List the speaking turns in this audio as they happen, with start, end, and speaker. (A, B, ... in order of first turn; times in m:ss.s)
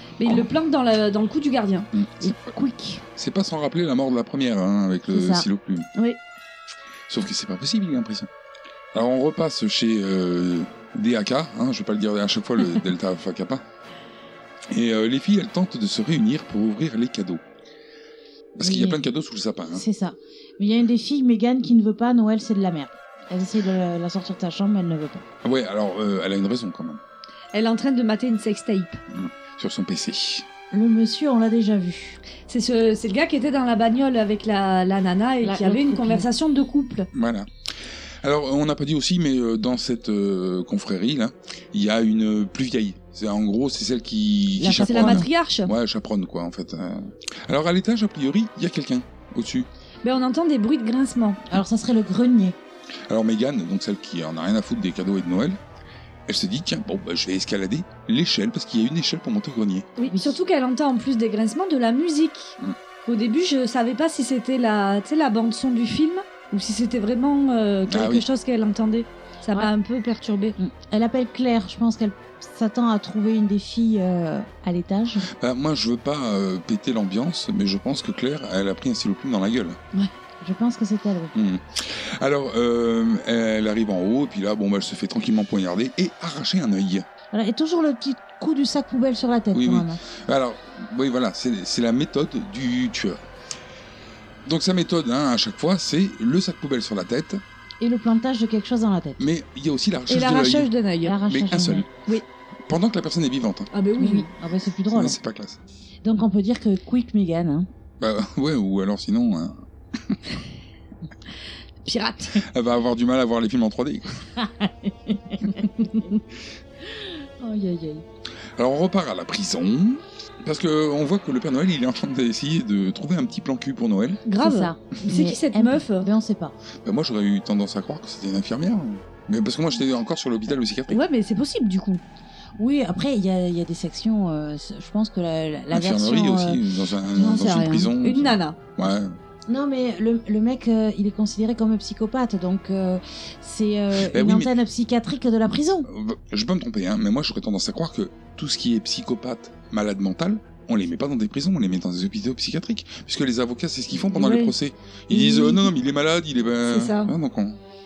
0:00.2-0:01.9 A
0:01.9-0:02.4 B
0:02.2-0:03.0 C
0:03.2-0:05.9 B
0:05.1-0:05.4 C
0:07.1-0:08.3 B
0:08.9-0:13.6 B
0:14.7-0:17.4 B
0:18.6-0:19.8 B
0:18.6-0:19.0 C
0:19.7-0:25.2 C
0:25.4-0:27.0 B
0:27.5-0:29.0 A
0:29.1-0:30.4 B
0:30.7-0:32.2 C
0:32.5-0:37.1 A
0:35.4-0:36.3 C
0:37.1-0:37.5 B
0:38.2-0:49.7 B
0:44.6-0:45.3 C
0:44.8-0:45.7 A
0:50.0-0:51.4 A
0:51.5-0:52.6 C
0:53.1-0:55.6 B
0:56.3-0:59.9 B
1:00.0-1:10.6 A
1:00.1-1:00.3 C
1:07.9-1:08.2 B
1:10.6-1:15.3 C
1:15.4-1:19.8 B
1:20.4-1:21.3 C
1:21.3-1:27.0 B
1:27.3-1:30.0 C
1:29.5-1:33.2 B
1:34.4-1:37.4 B
1:37.8-1:39.2 C
1:39.2-1:40.7 B
1:40.1-1:41.2 A
1:41.0-1:41.9 C
1:41.2-1:41.9 B
1:42.7-1:43.7 B
1:43.7-1:44.3 A
1:44.0-1:45.2 C
1:44.9-1:45.6 B
1:46.0-1:47.7 C
1:48.0-1:50.2 B
1:51.8-1:52.4 A
1:52.4-1:54.2 B
1:54.4-1:56.1 C
1:56.8-1:58.0 C
1:58.6-2:04.2 B
2:04.2-2:06.1 A
2:04.4-2:06.5 C
2:06.8-2:11.0 B
2:10.9-2:12.0 A
2:12.6-2:16.6 C
2:15.7-2:19.2 B
2:17.2-2:18.6 A
2:19.5-2:25.9 C
2:24.1-2:24.5 B
2:25.8-2:37.6 B
2:34.1-2:34.5 A
2:35.1-2:35.6 A
2:36.7-2:37.1 A